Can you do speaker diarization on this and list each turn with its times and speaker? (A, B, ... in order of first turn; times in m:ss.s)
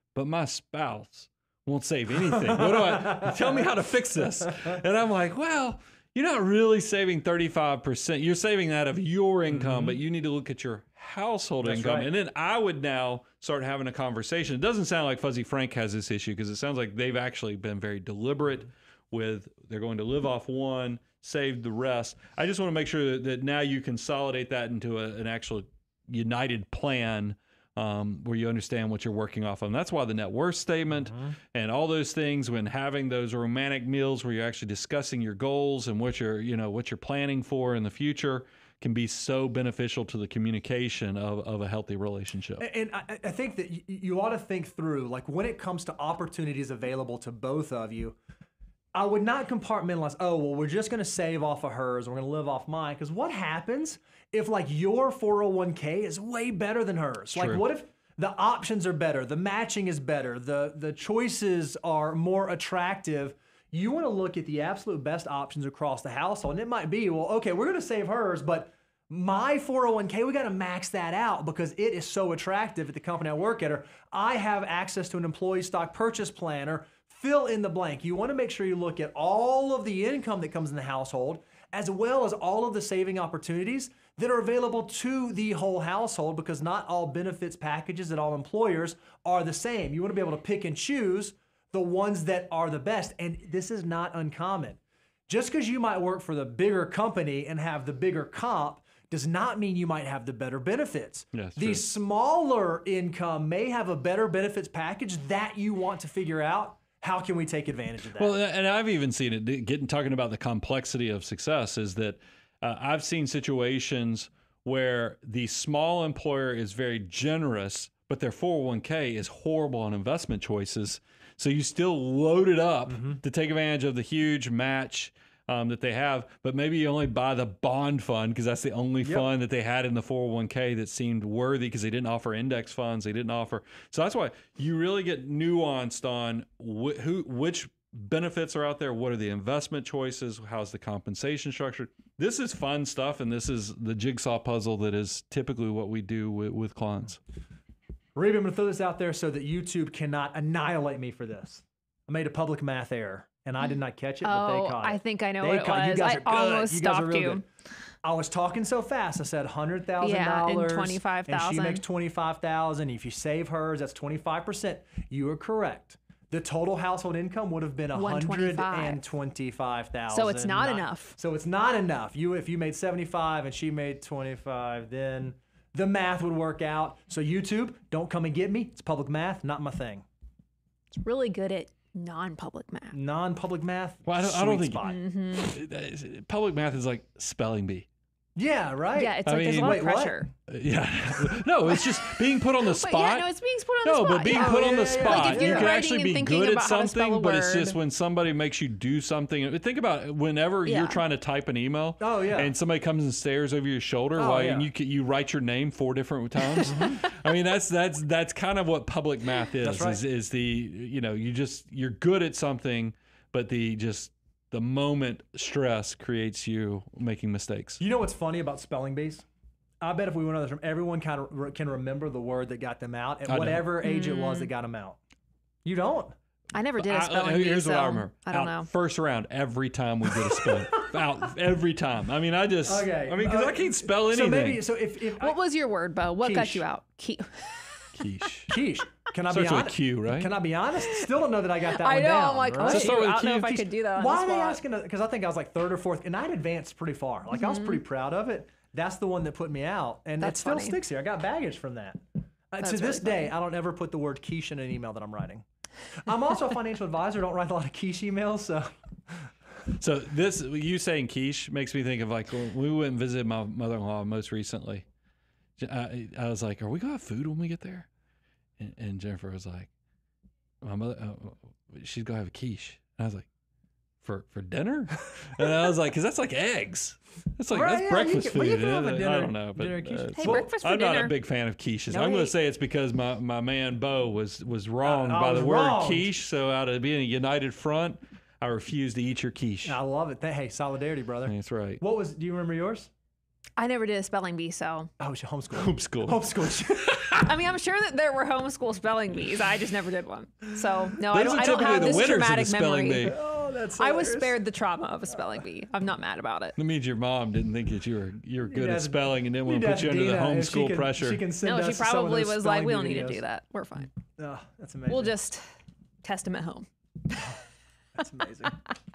0:00.1-0:42.6 A
0:02.4-0:03.3 B
0:09.5-0:10.0 B
0:11.6-0:12.1 B
0:42.6-0:48.2 B
0:48.9-1:48.3 B
0:57.3-0:57.6 A
1:41.3-1:41.8 A
1:48.2-2:27.2 A
2:02.9-2:03.2 B
2:09.0-2:09.3 B
2:28.1-2:37.4 B
2:34.2-2:37.4 C
2:38.0-3:00.0 B
2:40.0-2:41.8 C
2:47.9-2:49.0 C
2:50.1-2:51.2 C
3:00.9-3:03.0 C
3:02.9-3:05.0 B
3:04.0-3:04.8 A
3:04.8-3:05.6 C
3:05.4-3:07.8 A
3:08.4-3:10.2 B
3:08.9-3:10.3 C
3:09.2-3:09.8 A
3:10.5-3:13.3 A
3:12.6-3:17.8 C
3:13.8-3:37.8 A
3:14.3-3:15.7 B
3:20.6-3:21.0 C
3:22.0-3:22.5 B
3:24.2-3:24.7 B
3:26.6-3:26.9 C
3:26.7-3:27.0 B
3:29.6-3:30.0 B
3:37.8-3:39.2 B
3:39.8-3:45.0 B
3:43.3-3:43.7 A
3:43.8-3:44.5 C
3:45.6-3:46.2 B
3:46.5-3:48.7 C
3:46.8-3:54.6 A
3:52.6-3:55.4 B
3:55.2-3:57.9 C
3:56.2-3:56.6 B
3:57.9-3:58.5 A
3:58.5-4:19.3 B
3:59.3-4:00.3 A
4:00.8-4:04.6 C
4:02.6-4:03.6 A
4:07.3-4:07.8 C
4:10.2-4:10.8 C
4:12.6-4:13.3 C
4:19.8-4:24.8 A
4:25.6-4:27.9 A
4:28.6-4:29.7 A
4:30.6-4:33.3 A
4:34.0-4:49.8 A
4:37.5-4:40.5 B
4:40.2-4:41.1 C
4:41.9-4:42.3 C
4:44.8-4:46.1 B
4:49.6-4:52.9 B
4:51.3-4:51.8 A
4:53.6-4:54.9 C
4:55.0-4:57.1 B
4:55.5-4:57.2 A
4:57.1-5:03.1 C
5:01.0-5:03.2 A
5:03.0-5:04.4 B
5:03.8-5:06.6 C
5:06.6-5:11.2 A
5:08.5-5:13.2 B
5:11.4-5:13.9 C
5:14.2-5:15.2 B
5:14.9-5:15.4 C
5:16.0-5:17.4 C
5:18.0-5:18.6 B